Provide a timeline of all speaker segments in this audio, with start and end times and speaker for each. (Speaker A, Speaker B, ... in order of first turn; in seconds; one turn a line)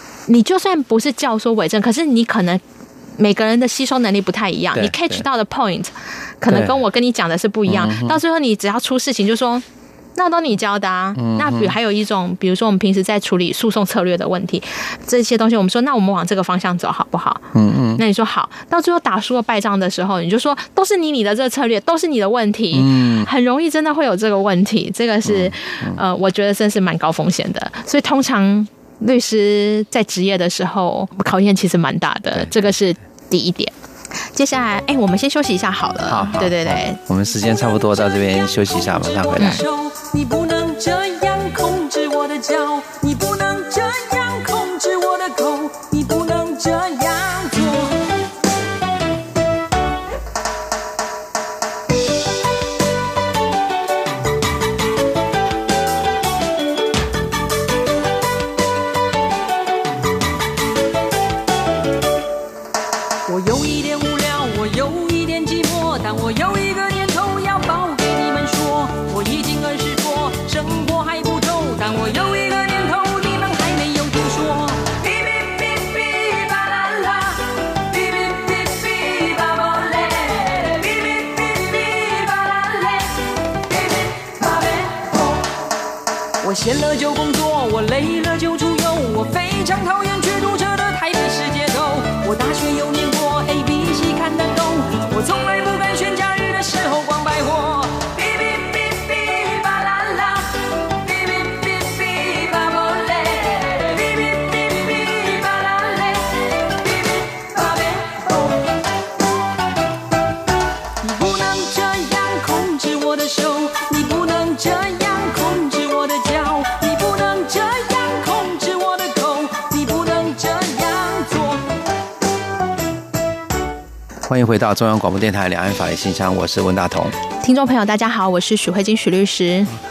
Speaker A: 0.3-2.6
Speaker A: 3.2-9.7
Speaker B: 4.8-5.2
Speaker B: 6.5-6.8
Speaker B: 7.7-8.2
Speaker A: 10.2-33.7
Speaker B: 11.2-11.8
Speaker B: 17.5-18.0
Speaker B: 22.7-23.3
Speaker B: 25.2-26.0
Speaker B: 32.4-32.6
Speaker A: 34.3-37.0
Speaker B: 36.1-39.6
Speaker C: 38.1-48.0
Speaker A: 39.4-39.6
Speaker C: 63.3-85.5
Speaker C: 86.4-108.7
Speaker C: 111.0-121.7
Speaker B: 124.3-127.2
Speaker A: 127.4-129.7